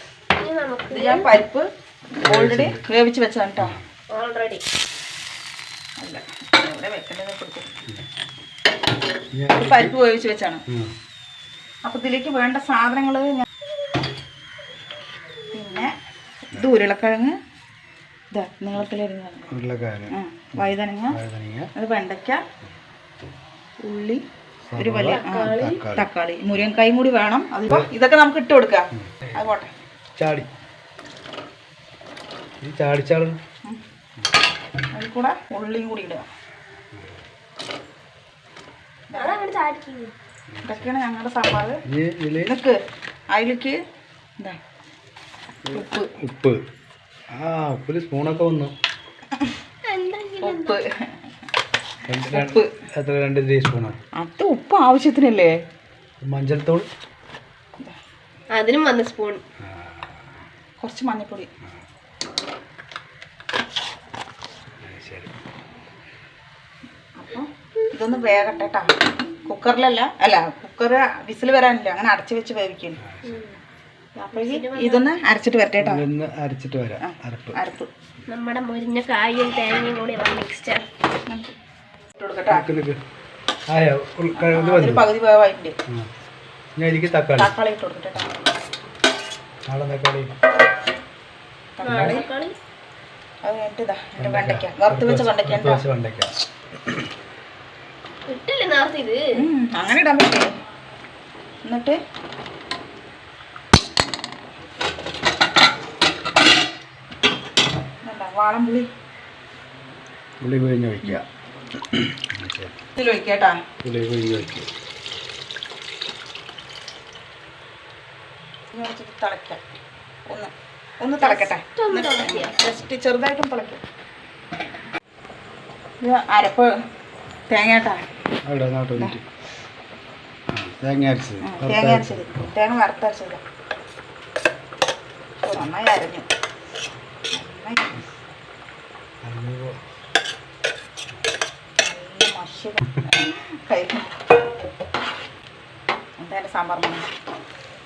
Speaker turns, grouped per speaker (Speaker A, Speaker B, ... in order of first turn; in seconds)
Speaker A: 0.4-1.3, 4.1-4.6, 25.1-25.8, 39.2-40.1, 49.9-50.8, 58.5-59.4, 73.2-73.6, 74.3-75.1, 78.3-80.8, 91.8-92.5, 98.3-99.2, 121.2-122.5
Speaker B: 0.9-1.7, 2.2-3.8, 6.0-7.7, 9.6-10.6, 11.8-13.4, 15.5-15.9, 16.5-17.4, 18.3-19.4, 20.1-21.2, 21.8-22.4, 23.8-24.2, 24.8-29.7, 34.9-36.3, 39.1-39.4, 40.6-41.8, 42.4-42.8, 43.3-43.8, 45.7-46.1, 50.4-51.1, 52.3-52.7, 54.2-55.5, 60.8-61.5, 67.2-68.9, 69.5-73.0, 74.2-76.0, 77.0-77.9, 82.2-82.7, 84.4-85.8, 87.4-88.3, 91.8-92.3, 93.4-95.8, 99.4-100.5, 101.6-102.0, 108.0-108.9, 113.0-113.6, 118.7-119.6, 120.3-123.8, 126.0-126.7, 127.5-128.0, 131.4-133.4, 135.4-136.3, 137.3-138.0, 141.8-144.1, 146.2-147.1
Speaker C: 2.3-2.8, 9.3-9.9, 10.7-10.9, 19.5-21.7, 24.7-26.1, 28.9-29.5, 30.2-30.5, 32.6-33.4, 36.9-37.2, 40.5-40.9, 41.9-42.5, 45.6-46.6, 47.3-48.7, 52.1-54.0, 56.2-56.9, 59.6-60.4, 64.8-65.4, 73.0-73.4, 75.8-77.6, 82.5-83.0, 83.7-85.1, 86.8-87.5, 89.7-90.3, 91.8-92.2, 94.2-96.3, 110.4-111.2, 111.9-112.8, 113.8-114.7, 128.5-129.2, 130.5-132.3, 139.2-139.8